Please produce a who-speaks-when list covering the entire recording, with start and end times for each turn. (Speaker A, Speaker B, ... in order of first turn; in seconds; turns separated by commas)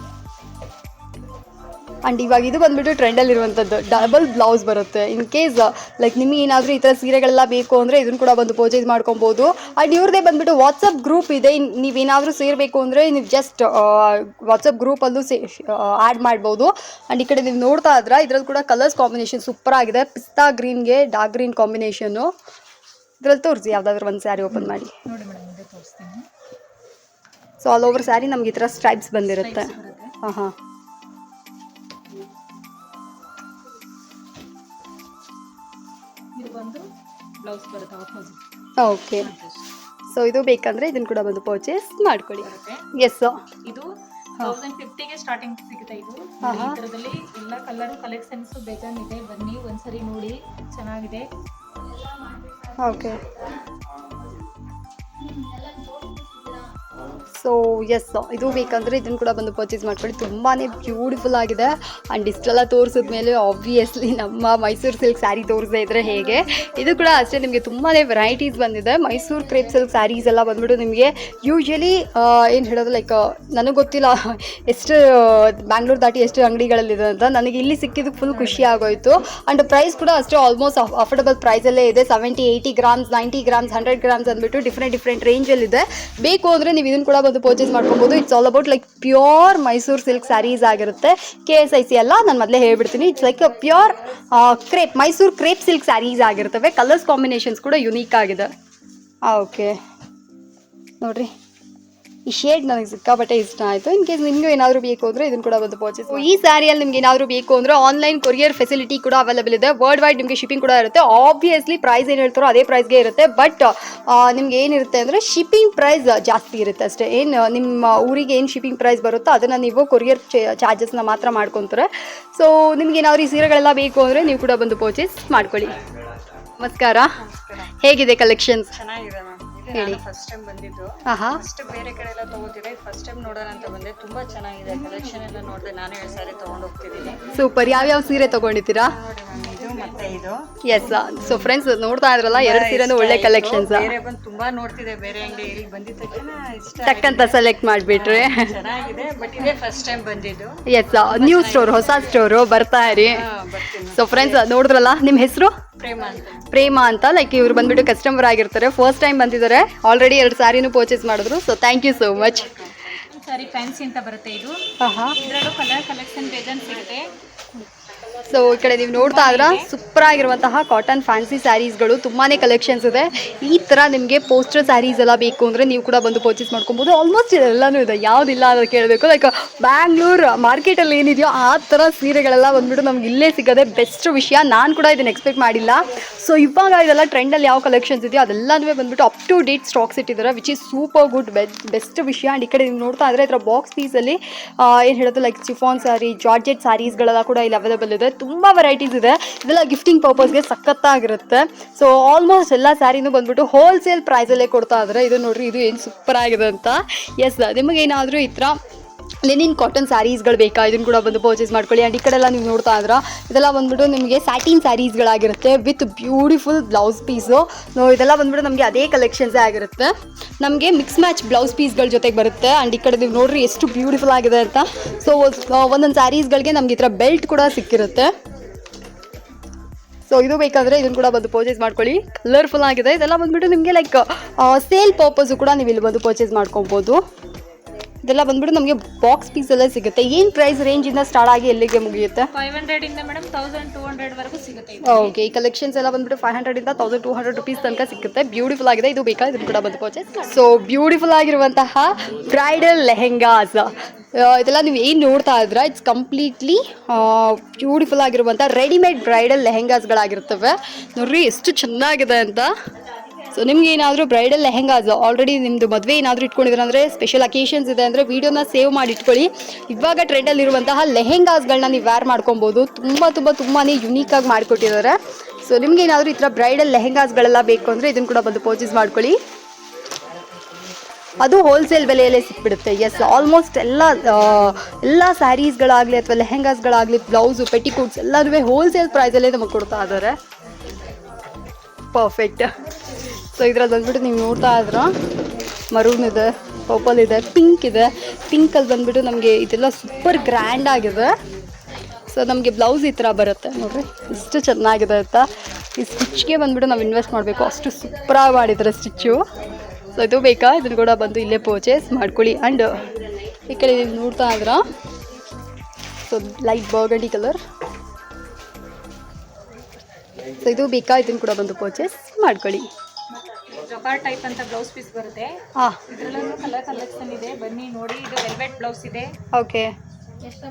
Speaker A: 2.0-22.3, Speaker A: 23.2-24.9, Speaker B: 24.5-26.2, Speaker A: 27.6-30.5, Speaker B: 29.2-30.1, Speaker B: 36.4-36.8, Speaker B: 37.4-38.4, Speaker A: 38.8-39.3, Speaker B: 39.2-39.6, Speaker A: 40.1-43.3, Speaker B: 42.4-42.9, Speaker B: 44.4-51.2, Speaker A: 46.4-46.8, Speaker A: 52.8-53.2, Speaker A: 57.3-98.5, Speaker B: 78.3-78.7, Speaker A: 99.2-99.8, Speaker A: 101.0-101.3, Speaker A: 102.3-125.7, Speaker A: 126.6-127.2, Speaker C: 127.2-127.7, Speaker A: 127.8-128.8, Speaker C: 128.7-137.2, Speaker A: 129.7-130.0, Speaker A: 131.0-131.4, Speaker B: 137.1-138.2, Speaker A: 137.3-139.0, Speaker C: 139.0-140.4, Speaker B: 139.4-140.2, Speaker A: 140.6-143.9, Speaker C: 142.3-147.3, Speaker A: 146.8-148.6, Speaker C: 147.9-151.8, Speaker A: 150.7-153.2, Speaker C: 153.1-154.4, Speaker A: 153.8-155.5, Speaker C: 155.8-156.3, Speaker A: 156.4-162.5, Speaker C: 162.3-162.7, Speaker B: 163.1-164.6, Speaker A: 164.8-165.2, Speaker B: 165.2-167.1, Speaker A: 168.3-208.6, Speaker B: 168.9-169.7, Speaker A: 209.2-228.1, Speaker A: 230.1-237.0, Speaker A: 238.0-242.3, Speaker B: 242.3-245.1, Speaker A: 244.8-262.5, Speaker A: 263.3-279.2, Speaker A: 281.2-290.1, Speaker A: 291.9-292.5, Speaker A: 293.3-294.9, Speaker A: 295.7-301.1, Speaker A: 302.1-309.2, Speaker A: 309.9-312.8, Speaker A: 313.5-314.6, Speaker A: 316.1-317.4, Speaker A: 320.4-322.6, Speaker B: 323.1-329.1, Speaker A: 325.6-325.8, Speaker A: 329.3-329.7